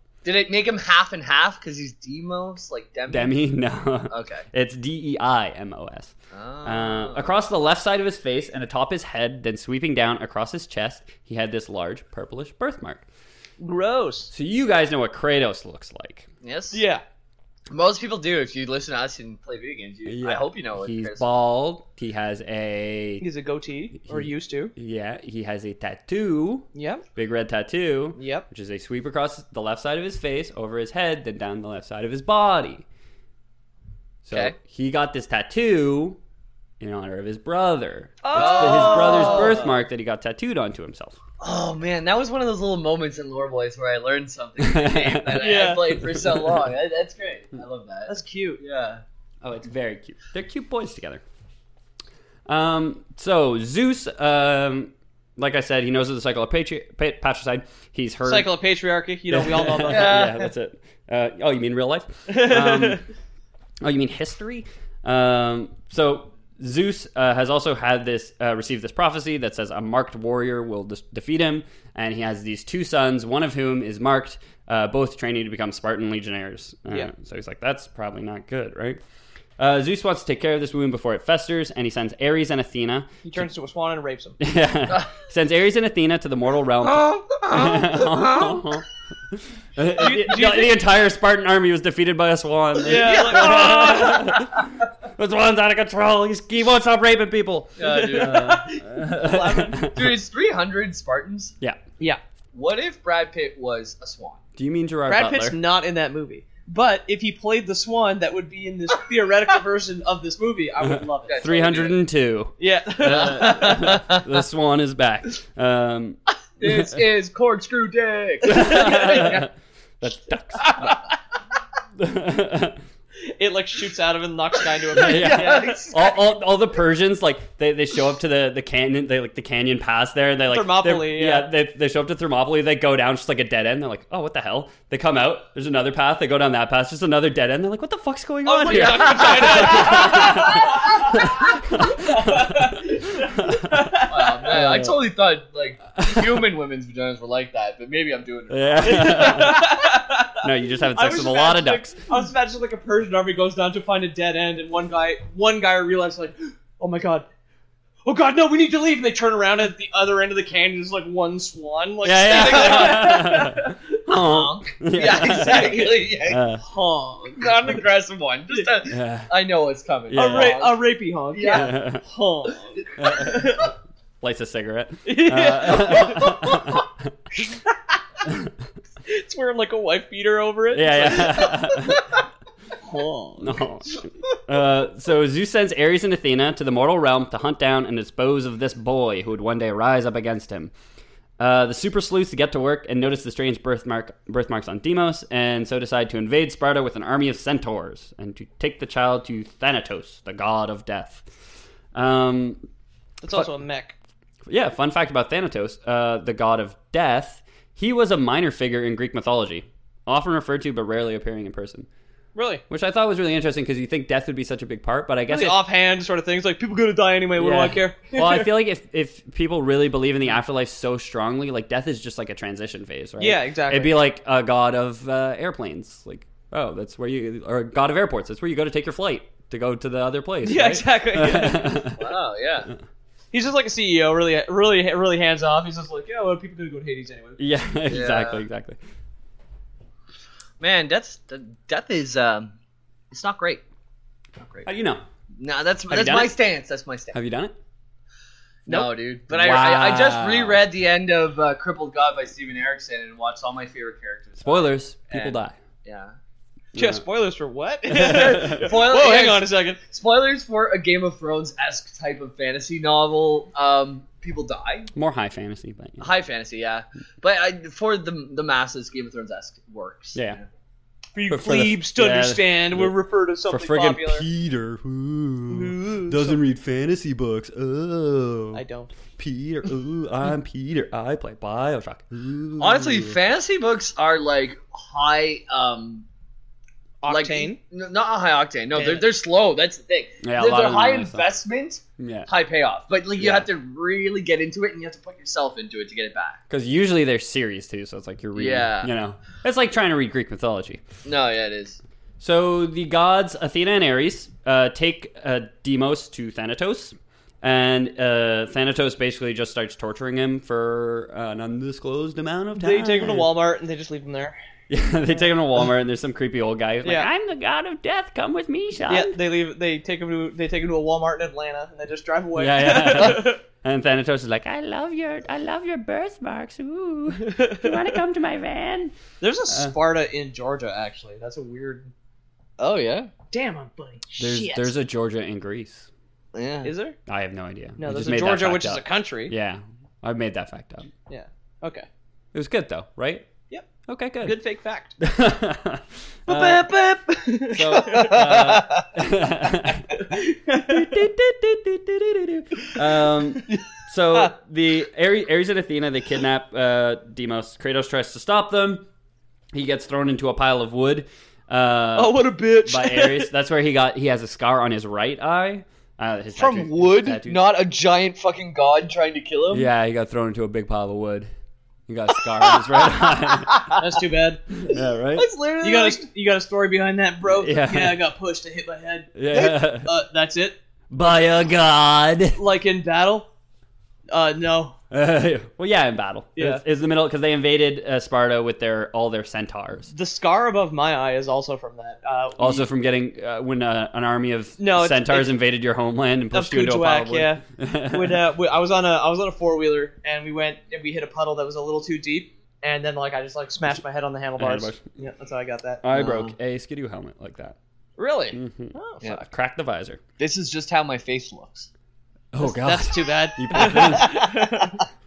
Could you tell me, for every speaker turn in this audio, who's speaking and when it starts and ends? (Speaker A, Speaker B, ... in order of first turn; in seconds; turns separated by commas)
Speaker A: 0.2-3.4, Speaker B: 3.1-13.0, Speaker A: 4.1-4.4, Speaker A: 6.3-7.3, Speaker C: 13.6-14.3, Speaker B: 14.3-16.3, Speaker A: 16.4-16.8, Speaker C: 16.7-17.0, Speaker A: 17.7-21.2, Speaker B: 20.1-23.2, Speaker C: 23.2-24.7, Speaker B: 24.0-32.8, Speaker C: 26.7-27.0, Speaker C: 28.2-28.5, Speaker B: 34.2-36.2, Speaker B: 36.8-41.2, Speaker C: 38.2-39.6, Speaker A: 38.3-39.8, Speaker A: 41.4-49.0, Speaker B: 44.6-46.6, Speaker C: 45.4-46.0, Speaker C: 48.1-48.6, Speaker B: 49.4-51.2, Speaker B: 52.5-58.5, Speaker C: 58.2-60.3, Speaker B: 59.3-63.0, Speaker A: 59.9-60.5, Speaker C: 62.3-63.0, Speaker B: 63.8-79.0, Speaker B: 79.6-83.4, Speaker C: 83.2-84.4, Speaker B: 84.4-88.8, Speaker A: 86.9-88.6, Speaker B: 89.8-100.2, Speaker C: 90.0-90.8, Speaker C: 92.8-94.2, Speaker A: 93.0-94.4, Speaker A: 97.8-98.7, Speaker C: 98.0-99.9, Speaker A: 99.8-101.5, Speaker A: 102.5-104.4, Speaker B: 104.6-105.6, Speaker C: 105.1-111.4, Speaker B: 110.8-116.8, Speaker A: 111.2-112.0, Speaker C: 112.6-113.7, Speaker A: 113.1-114.2, Speaker A: 116.6-119.5, Speaker B: 118.4-120.8, Speaker C: 118.5-119.2, Speaker A: 120.8-121.0, Speaker B: 122.0-122.8, Speaker C: 123.3-125.8, Speaker A: 124.9-126.2, Speaker B: 125.0-143.8, Speaker C: 130.5-131.5, Speaker C: 138.4-144.7, Speaker A: 138.7-140.9, Speaker A: 144.1-149.5, Speaker B: 144.5-145.0, Speaker B: 146.0-146.4, Speaker B: 148.5-149.6, Speaker C: 148.8-150.4, Speaker B: 150.4-152.0, Speaker C: 150.9-157.3, Speaker C: 158.0-163.8, Speaker B: 162.0-166.6, Speaker A: 162.3-163.3, Speaker A: 164.1-166.5, Speaker C: 165.1-167.8, Speaker A: 167.2-170.8, Speaker B: 168.8-169.3, Speaker B: 170.1-170.6, Speaker C: 170.1-173.7, Speaker A: 171.3-171.7, Speaker B: 171.5-172.0, Speaker B: 173.0-173.5, Speaker B: 174.2-177.1, Speaker C: 175.0-176.6, Speaker C: 179.0-181.6, Speaker B: 180.7-182.0, Speaker C: 182.8-183.7, Speaker B: 183.4-190.7, Speaker B: 191.4-201.2, Speaker B: 201.9-202.6, Speaker C: 203.2-203.9, Speaker B: 204.5-211.9, Speaker C: 212.3-212.6, Speaker B: 212.7-215.6, Speaker C: 215.3-218.5, Speaker B: 217.4-232.1, Speaker C: 223.2-224.0, Speaker C: 230.4-231.7, Speaker A: 231.8-232.7, Speaker C: 233.3-237.4, Speaker B: 237.4-238.8, Speaker A: 237.9-238.4, Speaker A: 240.6-242.6, Speaker A: 243.1-243.6, Speaker A: 244.4-244.7, Speaker B: 244.6-245.0, Speaker A: 245.4-247.1, Speaker B: 245.9-246.4, Speaker B: 247.1-247.5, Speaker A: 248.7-256.1, Speaker B: 249.3-250.6, Speaker B: 254.4-255.6, Speaker B: 256.7-257.0, Speaker C: 256.7-259.8, Speaker B: 257.9-258.7, Speaker A: 258.4-264.9, Speaker B: 264.9-266.1, Speaker A: 266.0-270.4, Speaker C: 271.1-274.2, Speaker B: 271.3-272.9, Speaker B: 273.5-278.6, Speaker C: 275.5-276.4, Speaker C: 278.5-278.9, Speaker B: 279.2-283.2, Speaker A: 282.6-286.0, Speaker C: 287.0-287.6, Speaker A: 287.1-296.4, Speaker C: 288.7-289.1, Speaker B: 290.2-291.3, Speaker B: 292.0-292.3, Speaker B: 293.1-293.5, Speaker B: 296.5-300.8, Speaker A: 298.3-298.9, Speaker A: 301.0-301.8, Speaker B: 302.2-313.3, Speaker C: 312.6-314.4, Speaker B: 314.7-319.1, Speaker C: 316.8-317.1, Speaker C: 318.9-323.4, Speaker B: 322.4-328.9, Speaker C: 327.2-327.8, Speaker C: 329.2-331.9, Speaker B: 329.5-329.7, Speaker A: 332.6-333.1, Speaker C: 333.3-334.7, Speaker B: 334.2-335.9, Speaker A: 336.3-336.7, Speaker C: 336.6-336.9, Speaker B: 337.1-340.9, Speaker C: 337.8-339.3, Speaker C: 341.1-341.9, Speaker B: 342.3-343.3, Speaker B: 343.9-344.4, Speaker C: 344.2-344.9, Speaker B: 345.0-346.6, Speaker C: 346.3-348.1, Speaker A: 347.1-348.9, Speaker B: 347.5-349.9, Speaker C: 349.9-350.9, Speaker B: 350.6-358.9, Speaker A: 353.4-354.3, Speaker B: 359.5-367.5, Speaker C: 361.9-363.3, Speaker A: 366.4-369.7, Speaker B: 369.5-371.3, Speaker B: 371.9-373.6, Speaker A: 373.5-373.8, Speaker C: 373.8-374.4, Speaker B: 374.6-375.3, Speaker A: 374.7-376.0, Speaker C: 375.6-380.6, Speaker B: 377.2-378.0, Speaker B: 379.1-379.9, Speaker B: 380.9-382.4, Speaker C: 382.4-383.3, Speaker C: 384.1-384.8, Speaker B: 384.9-389.9, Speaker C: 386.4-386.6, Speaker C: 389.9-392.7, Speaker B: 392.4-398.1, Speaker C: 394.6-395.3, Speaker C: 396.3-405.8, Speaker B: 404.4-404.8, Speaker B: 405.8-407.6, Speaker A: 405.9-406.3, Speaker C: 408.0-409.1, Speaker B: 408.3-410.0, Speaker A: 410.2-411.7, Speaker B: 412.3-414.1, Speaker C: 412.4-414.8, Speaker A: 413.9-414.7